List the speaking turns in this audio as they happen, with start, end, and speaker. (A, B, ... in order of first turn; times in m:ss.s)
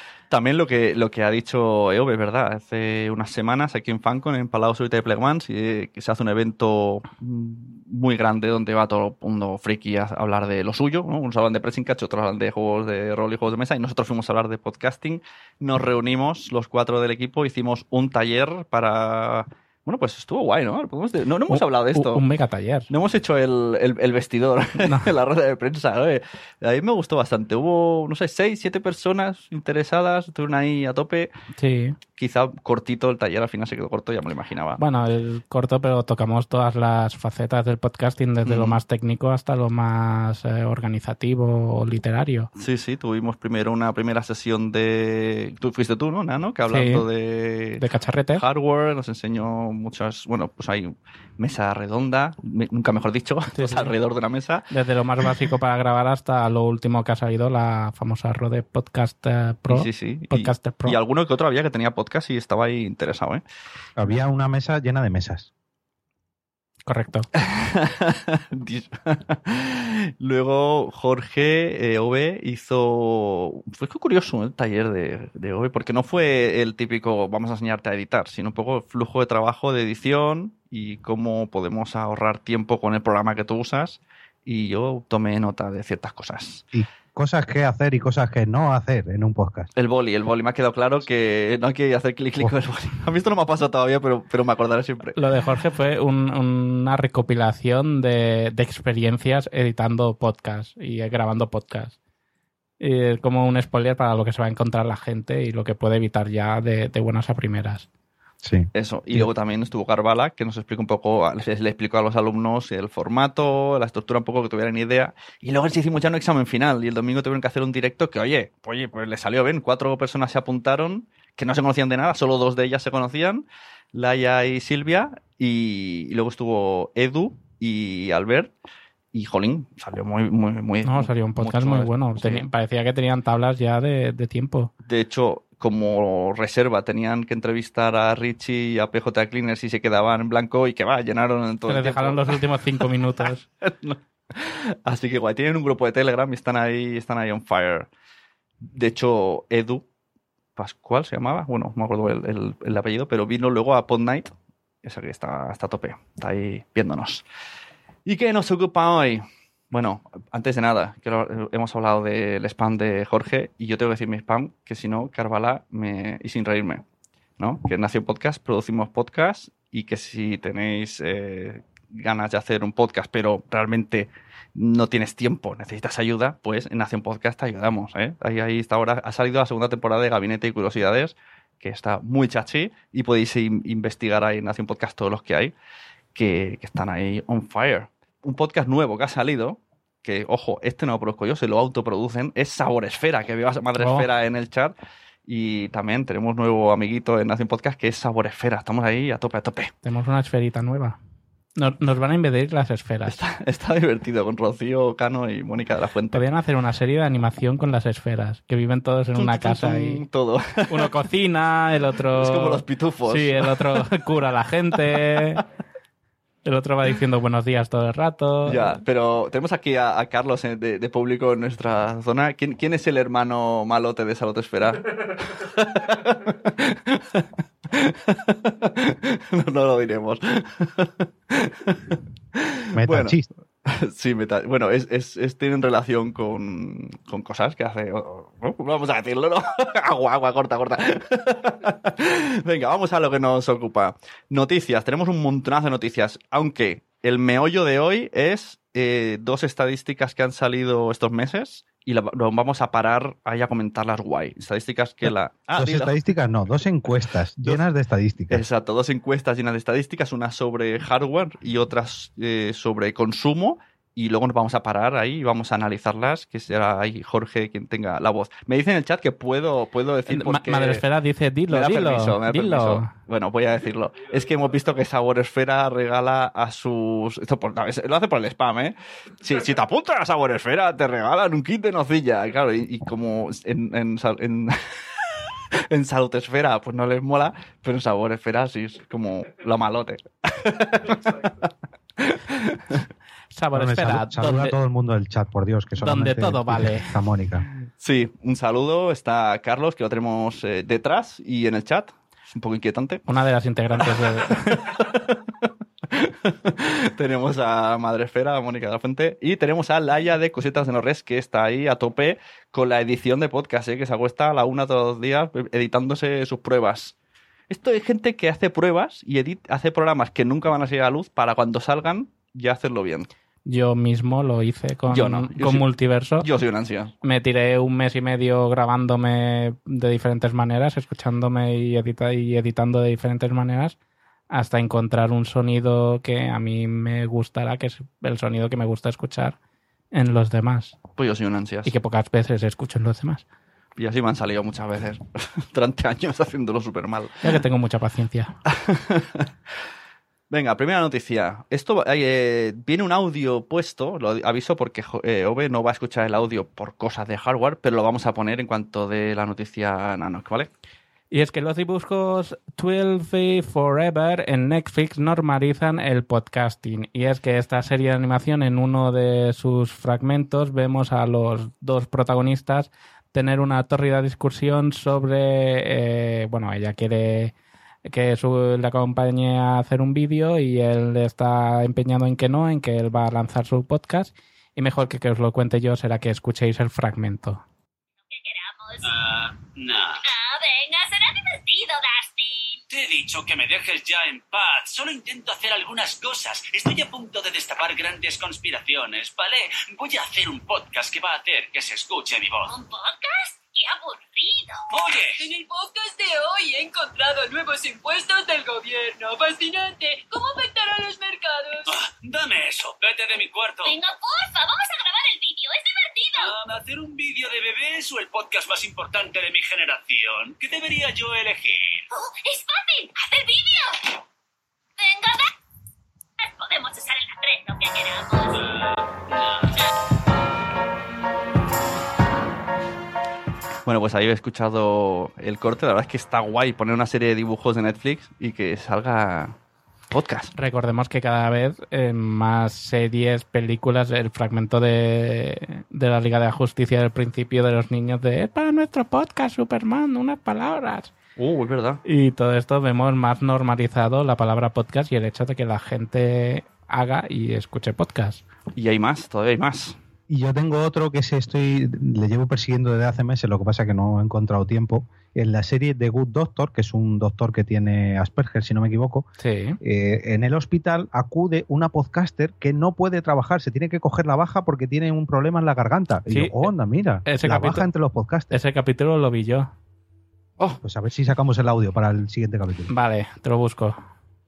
0:00.3-0:22.2 A
0:21.5-0:22.9 B
0:22.9-0:31.3 A
0:24.8-0:25.1 B
0:31.6-0:32.0 B
0:32.2-0:34.8 A
0:34.8-0:42.5 B
0:38.4-0:38.8 A
0:42.6-0:47.8 A
0:46.7-0:47.0 B
0:47.8-0:48.4 B
0:48.3-0:54.7 A
0:53.5-0:53.9 B
0:54.7-1:01.0 B
0:59.7-1:03.4 A
1:04.0-1:05.5 C
1:06.8-1:07.3 B
1:07.4-1:26.6 A
1:26.7-1:29.7 C
1:29.8-1:35.2 A
1:35.2-1:42.0 B
1:42.8-1:47.9 B
1:48.4-1:49.3 C
1:48.7-2:08.5 A
2:09.1-2:12.4 A
2:10.8-2:14.7 B
2:14.8-2:27.9 A
2:21.7-2:23.4 B
2:28.7-2:29.8 A
2:30.6-2:37.2 A
2:38.0-2:46.8 A
2:47.4-3:05.5 A
3:06.1-3:14.7 A
3:13.8-3:14.0 B
3:15.2-3:19.7 A
3:19.8-3:21.0 B
3:21.6-3:23.2 B
3:23.1-3:26.2 A
3:26.1-3:30.0 B
3:29.2-3:30.9 A
3:30.7-3:35.4 B
3:32.1-3:33.8 A
3:36.4-3:38.8 B
3:38.4-4:16.2 A
3:52.7-3:53.3 C
4:15.0-4:18.4 C
4:18.3-4:30.8 A
4:30.1-4:32.9 B
4:31.5-4:52.8 A
4:53.3-4:54.5 B
4:53.5-4:57.4 C
4:55.8-4:56.9 B
4:57.8-5:03.0 A
5:03.1-5:04.7 B
5:03.8-5:16.9 A
5:17.5-5:23.1 A
5:23.4-5:26.3 B
5:24.9-5:25.7 A
5:26.2-5:26.9 A
5:27.0-5:33.8 B
5:34.3-5:39.4 B
5:39.9-5:40.8 B
5:41.0-5:41.7 A
5:41.6-5:43.2 B
5:43.8-5:47.3 A
5:47.2-5:48.3 B
5:48.5-5:49.3 A
5:50.3-6:00.5 A
6:01.1-6:17.3 B
6:17.8-6:27.4 B
6:28.1-6:28.9 D
6:28.8-6:30.0 E
6:30.0-6:32.6 D
6:32.7-6:42.5 E
6:42.5-6:44.6 D
6:44.7-6:45.2 E
6:45.2-6:51.7 F
6:51.7-6:53.7 E
6:53.6-6:56.3 D
6:56.2-7:01.8 E
7:01.9-7:03.9 D
7:04.8-7:05.3 D
7:06.2-7:08.4 D
7:08.4-7:09.5 E
7:13.6-7:19.4 A
7:19.9-7:20.3 A
7:20.4-7:30.9 B
7:31.2-7:31.8 A
7:31.8-7:38.2 B
7:38.6-7:39.8 A
7:40.1-7:49.1 C
7:49.2-7:49.6 B
7:49.6-7:58.4 C
7:56.1-7:56.5 B
7:57.0-7:57.7 B
7:58.3-7:59.5 B
8:00.6-8:02.7 C
8:02.7-8:03.8 B